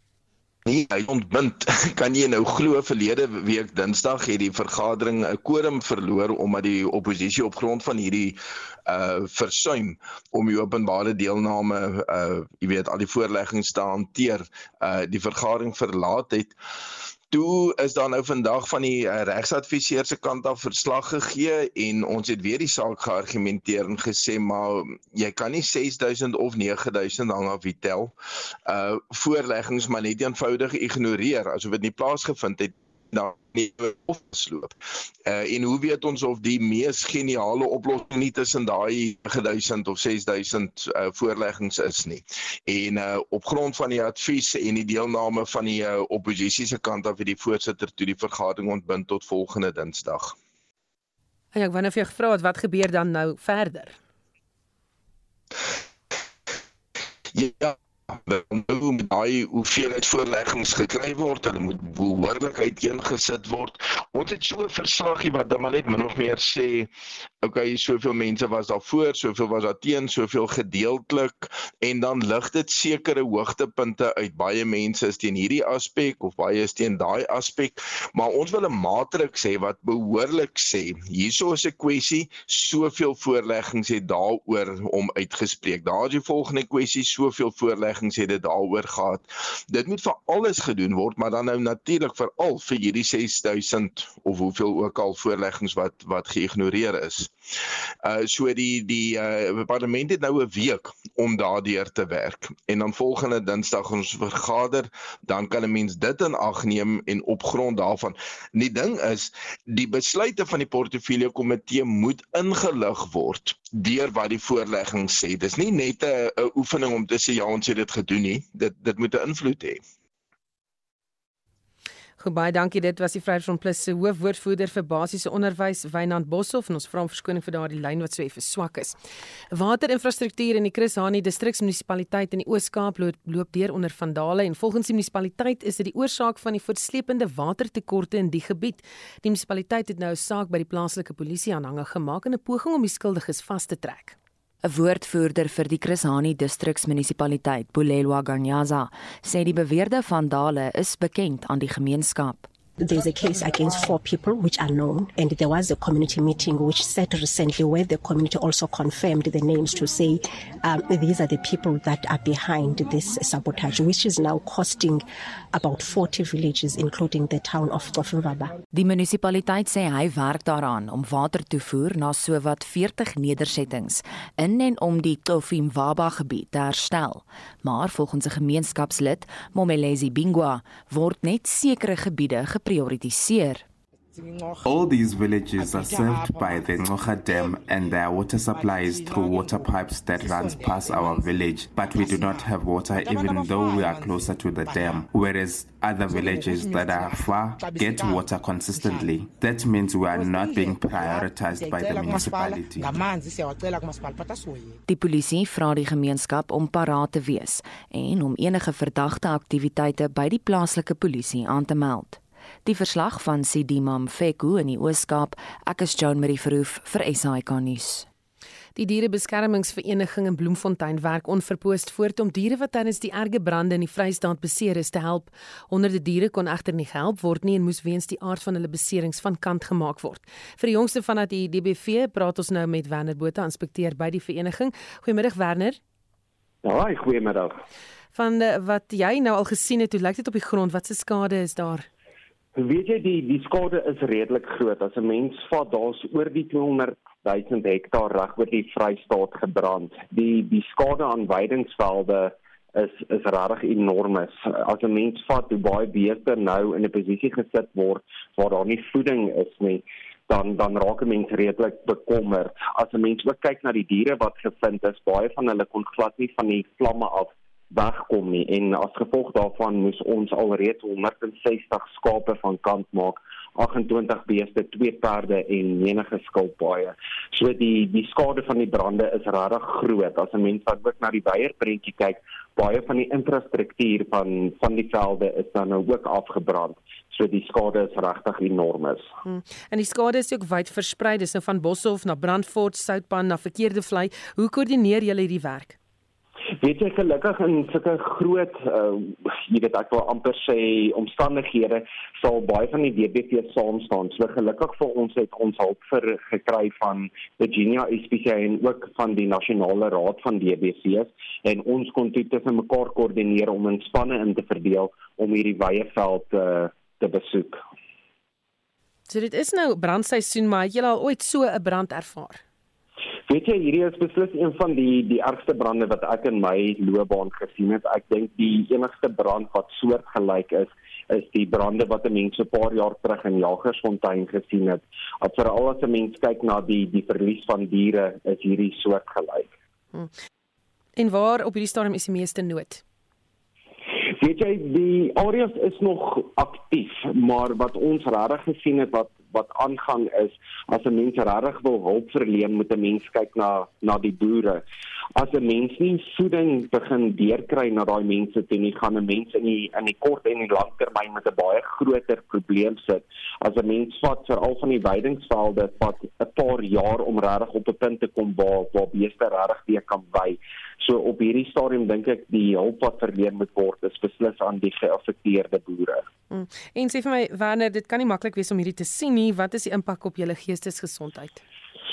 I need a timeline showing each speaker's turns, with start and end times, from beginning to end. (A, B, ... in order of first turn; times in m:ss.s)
0:00.7-0:16.6 A
0:17.3-0:28.1 A
0:28.7-0:34.8 A
0:35.3-0:50.4 A
0:51.5-0:54.0 B
0:57.3-1:06.9 A
1:07.4-1:37.3 A
1:38.0-1:59.8 A
2:02.2-2:09.0 B
2:09.5-2:24.2 B
2:24.6-2:32.5 C
2:32.8-2:48.5 D
2:48.7-3:03.6 C
3:04.6-3:22.9 E
3:24.9-3:38.1 C
3:38.8-3:55.8 B
3:56.6-3:57.6 F
3:58.2-4:01.9 B
4:02.6-4:49.1 F
4:49.2-4:55.8 B
4:56.6-5:17.6 F
5:19.1-5:22.4 B
5:23.3-5:39.5 F
5:41.0-5:42.8 B
5:44.2-5:54.6 F
5:55.2-6:16.0 F
6:16.3-6:21.4 B